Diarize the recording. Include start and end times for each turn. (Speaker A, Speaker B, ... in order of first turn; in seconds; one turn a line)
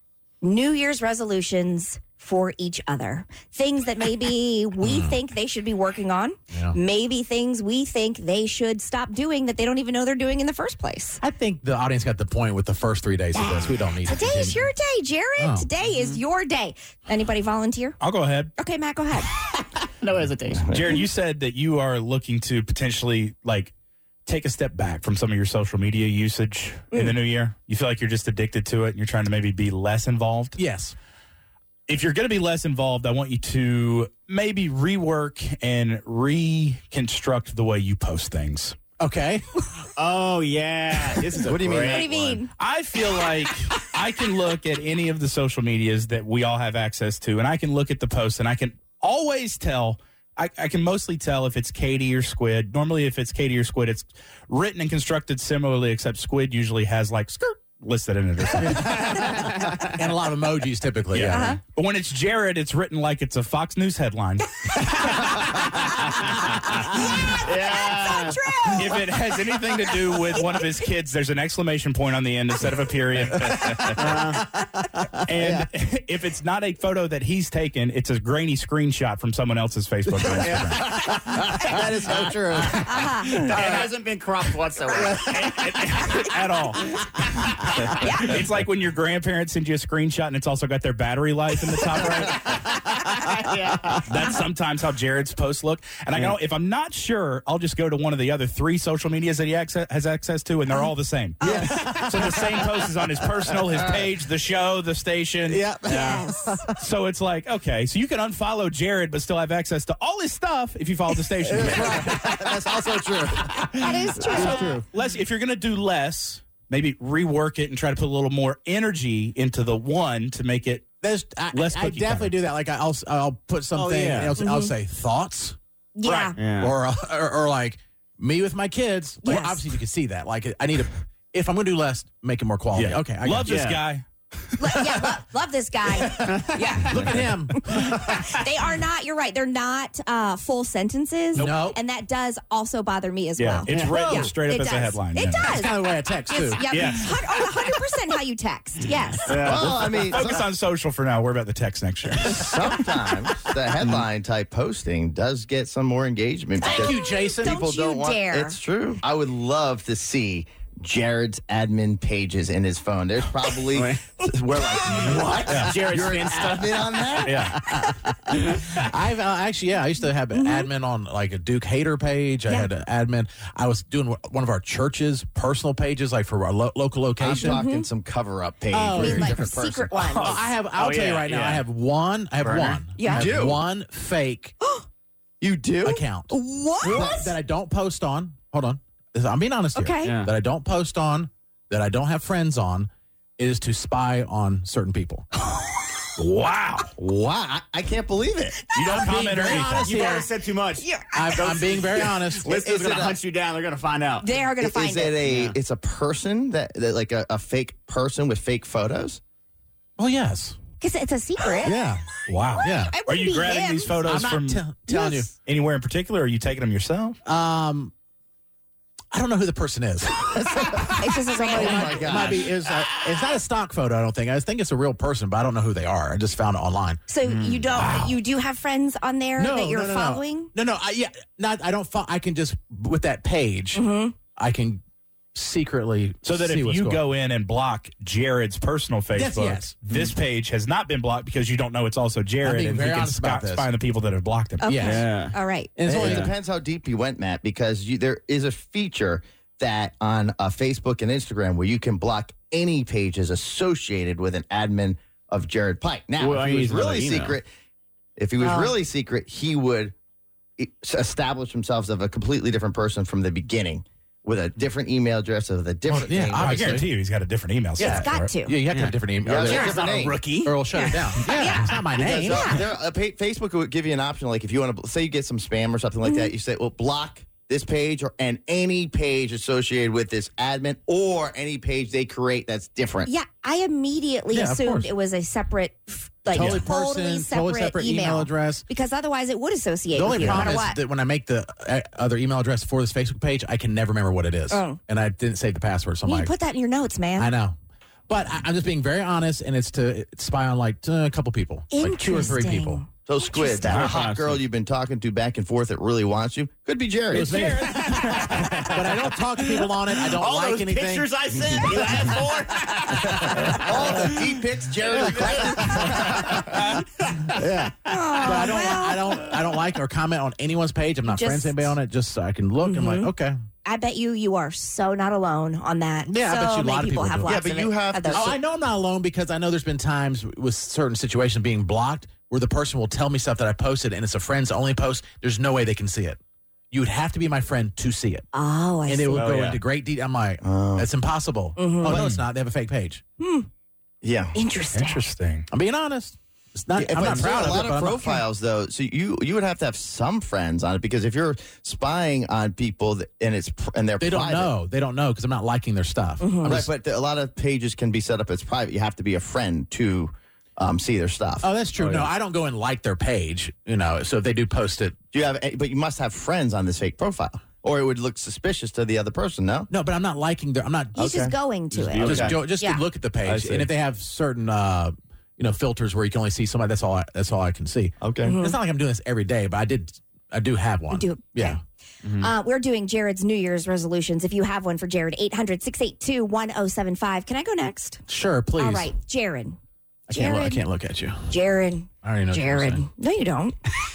Speaker A: 0.4-11.2
Speaker B: 4.8-5.2
Speaker B: 6.5-6.8
Speaker B: 11.2-14.7
Speaker A: 13.3-18.0
Speaker B: 15.4-15.7
Speaker C: 15.9-16.2
Speaker D: 18.0-18.5
Speaker A: 18.6-19.3
Speaker C: 19.8-20.8
Speaker D: 20.6-23.7
Speaker D: 24.2-30.6
Speaker B: 30.6-30.9
Speaker D: 31.9-38.8
Speaker B: 39.0-39.5
Speaker C: 40.0-42.1
Speaker E: 41.4-42.4
Speaker A: 41.8-42.5
Speaker D: 42.5-59.1
Speaker B: 58.6-61.5
Speaker C: 59.1-59.9
Speaker D: 61.1-64.5
Speaker A: 61.3-61.6
Speaker A: 64.7-65.4
Speaker C: 65.3-66.5
Speaker A: 66.6-69.2
Speaker C: 67.3-68.5
Speaker D: 68.7-74.3
Speaker A: 70.4-70.7
Speaker C: 73.7-74.5
Speaker D: 75.2-80.8
Speaker E: 75.3-75.7
Speaker E: 80.2-83.9
Speaker A: 82.8-83.3
Speaker C: 83.3-86.3
Speaker E: 84.9-85.8
Speaker D: 85.9-92.5
Speaker A: 87.9-88.3
Speaker C: 92.1-94.3
Speaker D: 94.1-106.2
Speaker A: 101.4-101.7
Speaker B: 101.4-102.5
Speaker B: 105.5-106.5
Speaker A: 105.9-106.6
Speaker D: 106.8-112.3
Speaker B: 111.4-112.7
Speaker E: 111.5-114.8
Speaker A: 113.7-114.8
Speaker B: 114.2-114.8
Speaker D: 114.4-120.8
Speaker C: 114.5-114.8
Speaker B: 121.0-125.6
Speaker D: 121.5-122.3
Speaker C: 123.7-124.3
Speaker A: 124.4-124.7
Speaker A: 126.0-126.3
Speaker C: 126.0-126.7
Speaker B: 126.6-133.7
Speaker A: 129.2-129.7
Speaker D: 132.7-134.8
Speaker C: 133.4-133.8
Speaker A: 134.6-149.7
Speaker B: 136.2-138.2
Speaker C: 136.3-136.6
Speaker B: 141.3-141.8
Speaker D: 143.4-145.5
Speaker C: 143.7-144.0
Speaker B: 143.8-144.3
Speaker B: 145.4-146.6
Speaker D: 146.7-147.2
Speaker C: 149.3-149.8
Speaker E: 149.4-150.4
Speaker D: 149.6-152.8
Speaker E: 152.2-167.6
Speaker C: 153.8-154.1
Speaker A: 156.6-158.6
Speaker B: 156.6-157.6
Speaker C: 163.7-164.1
Speaker C: 165.0-167.5
Speaker D: 165.5-165.8
Speaker B: 167.2-177.6
Speaker C: 168.4-168.7
Speaker A: 170.3-170.7
Speaker E: 177.2-180.4
Speaker A: 177.4-177.9
Speaker B: 178.7-179.5
Speaker A: 178.9-180.4
Speaker C: 180.0-181.7
Speaker B: 180.1-184.5
Speaker C: 182.4-182.8
Speaker A: 183.0-183.3
Speaker E: 183.1-183.6
Speaker E: 185.4-186.0
Speaker B: 185.8-195.2
Speaker A: 186.3-187.3
Speaker E: 186.8-187.2
Speaker A: 189.7-190.2
Speaker C: 190.0-190.3
Speaker D: 196.1-196.9
Speaker E: 197.0-198.7
Speaker D: 198.7-200.0
Speaker B: 198.8-200.3
Speaker C: 199.4-204.3
Speaker A: 199.9-200.3
Speaker A: 200.8-201.7
Speaker B: 201.1-202.5
Speaker E: 202.4-203.2
Speaker A: 204.2-205.2
Speaker E: 204.6-209.2
Speaker C: 205.2-205.6
Speaker B: 210.0-210.6
Speaker A: 210.8-211.8
Speaker B: 211.6-212.1
Speaker D: 212.3-214.6
Speaker B: 212.6-212.9
Speaker A: 212.6-213.9
Speaker B: 213.9-215.3
Speaker A: 214.9-215.3
Speaker D: 215.4-217.2
Speaker B: 217.2-217.9
Speaker B: 219.1-227.0
Speaker E: 220.5-222.6
Speaker A: 221.0-222.4
Speaker A: 227.1-230.5
Speaker C: 227.3-227.7
Speaker B: 229.4-233.8
Speaker A: 233.7-234.1
Speaker B: 234.3-234.8
Speaker B: 235.3-237.0
Speaker D: 236.2-244.7
Speaker B: 239.1-239.8
Speaker B: 242.4-243.7
Speaker A: 244.6-245.7
Speaker B: 244.6-245.1
Speaker C: 244.8-245.3
Speaker B: 245.8-246.3
Speaker E: 245.8-257.4
Speaker C: 256.2-257.4
Speaker E: 258.2-259.9
Speaker A: 258.4-258.8
Speaker E: 260.6-266.8
Speaker B: 265.9-266.9
Speaker D: 266.3-268.3
Speaker A: 267.8-268.5
Speaker B: 267.8-269.9
Speaker E: 269.2-270.2
Speaker C: 269.5-270.5
Speaker B: 270.4-272.6
Speaker A: 271.2-271.7
Speaker E: 271.9-283.1
Speaker A: 272.2-272.6
Speaker A: 276.0-276.3
Speaker A: 283.0-290.8
Speaker B: 284.3-284.9
Speaker B: 286.3-288.6
Speaker D: 286.4-286.6
Speaker B: 289.9-296.3
Speaker D: 290.1-290.5
Speaker A: 294.5-294.8
Speaker A: 296.0-297.3
Speaker B: 297.2-297.6
Speaker B: 298.1-302.8
Speaker A: 301.7-303.8
Speaker E: 303.1-307.7
Speaker D: 303.6-304.0
Speaker C: 303.7-304.4
Speaker D: 307.1-308.6
Speaker B: 307.1-311.6
Speaker C: 307.7-317.5
Speaker E: 313.4-316.8
Speaker B: 317.3-323.4
Speaker A: 317.9-319.3
Speaker A: 321.1-321.7
Speaker A: 322.6-323.1
Speaker A: 323.6-328.4
Speaker B: 326.1-327.4
Speaker E: 327.2-328.3
Speaker B: 328.1-336.2
Speaker B: 336.7-338.2
Speaker A: 338.3-339.3
Speaker B: 338.9-343.0
Speaker C: 339.1-339.6
Speaker E: 340.4-340.9
Speaker A: 341.6-342.0
Speaker E: 341.9-342.2
Speaker A: 343.2-343.5
Speaker E: 344.0-344.3
Speaker A: 344.3-345.1
Speaker D: 344.7-345.5
Speaker B: 345.5-348.2
Speaker E: 346.8-354.5
Speaker C: 347.1-347.6
Speaker B: 354.0-356.7
Speaker A: 356.2-356.5
Speaker E: 356.4-361.5
Speaker B: 361.4-364.9
Speaker C: 361.8-362.1
Speaker E: 365.1-369.7
Speaker B: 369.7-371.0
Speaker A: 370.9-372.8
Speaker E: 371.0-371.3
Speaker C: 371.8-372.2
Speaker B: 371.9-381.6
Speaker E: 372.0-372.4
Speaker E: 378.0-378.4
Speaker A: 378.2-378.6
Speaker A: 380.9-381.6
Speaker A: 382.2-388.0
Speaker B: 388.1-388.9
Speaker A: 388.6-389.6
Speaker B: 390.1-391.3
Speaker A: 390.1-390.6
Speaker A: 391.3-393.7
Speaker B: 392.0-392.8